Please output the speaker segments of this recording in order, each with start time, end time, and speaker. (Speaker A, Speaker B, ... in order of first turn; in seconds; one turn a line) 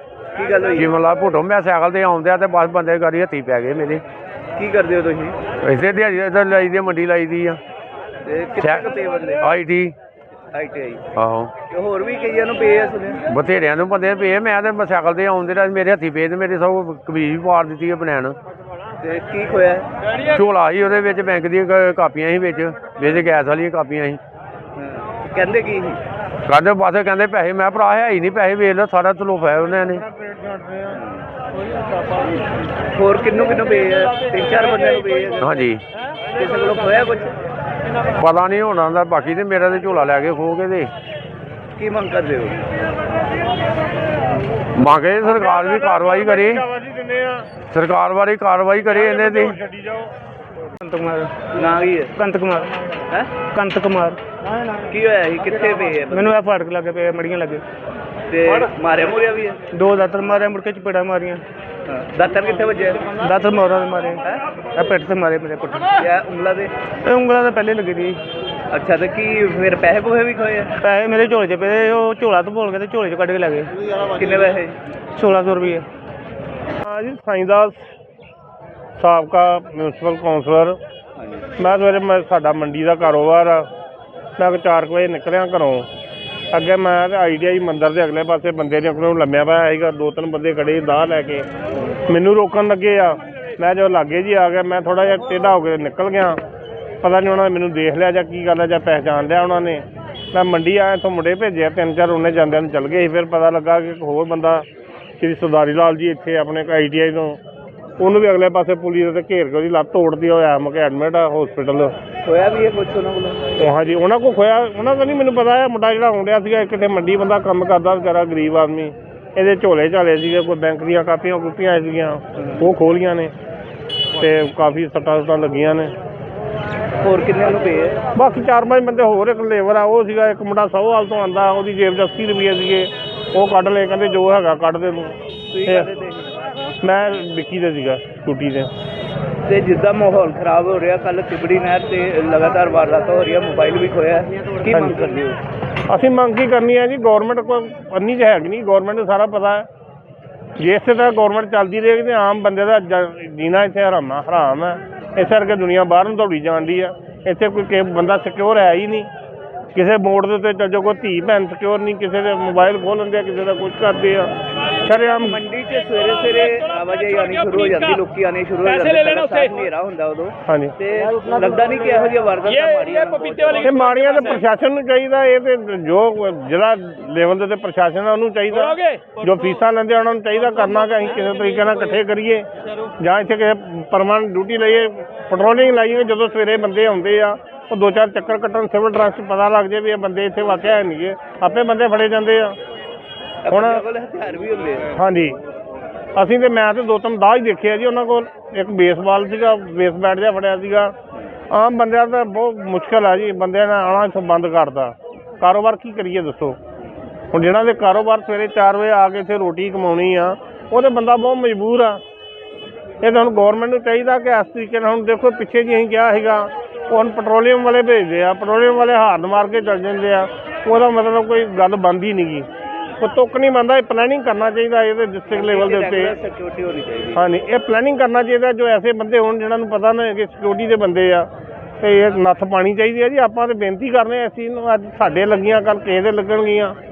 Speaker A: 0.3-0.9
Speaker B: 0.7-4.0
Speaker A: 4.5-5.4
Speaker B: 5.6-7.6
Speaker A: 8.2-9.4
Speaker B: 8.6-8.9
Speaker B: 9.4-9.9
Speaker A: 10.5-11.0
Speaker B: 11.1-11.5
Speaker A: 11.7-13.2
Speaker B: 13.3-18.4
Speaker A: 19.0-19.9
Speaker B: 20.3-24.2
Speaker A: 24.8-26.0
Speaker B: 26.5-30.1
Speaker A: 30.9-31.2
Speaker A: 32.9-35.4
Speaker B: 35.4-35.8
Speaker A: 36.3-37.3
Speaker B: 38.2-40.9
Speaker A: 41.8-42.7
Speaker B: 44.8-46.6
Speaker C: 45.6-47.5
Speaker B: 47.7-49.6
Speaker D: 50.8-51.3
Speaker A: 51.5-52.1
Speaker D: 52.2-52.7
Speaker D: 53.5-54.2
Speaker A: 54.9-56.4
Speaker D: 56.1-57.6
Speaker A: 58.3-59.6
Speaker D: 59.7-61.4
Speaker A: 61.9-63.1
Speaker D: 63.2-64.2
Speaker D: 64.8-65.9
Speaker A: 65.9-66.7
Speaker D: 67.1-68.2
Speaker A: 68.7-70.7
Speaker D: 70.8-73.7
Speaker A: 74.0-74.8
Speaker D: 75.2-75.8
Speaker C: 76.8-77.8
Speaker C: 79.0-80.8
Speaker A: 81.2-81.5
Speaker C: 81.6-83.7
Speaker C: 84.4-85.9
Speaker C: 86.5-91.5
Speaker C: 92.1-96.4
Speaker C: 97.0-104.6
Speaker C: 105.2-107.4
Speaker C: 108.0-111.9
Speaker A: 112.2-113.7
Speaker C: 113.6-123.3
Speaker A: 122.3-122.6
Speaker C: 124.2-125.9
Speaker A: 127.0-128.0
Speaker C: 128.2-135.8
Speaker A: 135.5-136.3
Speaker C: 136.8-138.7
Speaker A: 139.4-145.4
Speaker C: 144.7-145.0
Speaker C: 145.9-149.7
Speaker C: 150.6-159.1
Speaker C: 159.7-164.3
Speaker C: 164.8-165.3
Speaker A: 164.9-174.3
Speaker C: 170.5-170.7
Speaker C: 173.6-182.4
Speaker C: 183.0-192.6
Speaker A: 193.4-194.9
Speaker C: 193.5-193.8
Speaker C: 194.9-195.4
Speaker C: 196.2-200.9
Speaker C: 201.5-206.6
Speaker C: 207.3-212.0
Speaker C: 213.0-222.5
Speaker C: 223.0-226.1
Speaker A: 225.3-227.2
Speaker C: 227.2-231.3
Speaker C: 231.8-236.8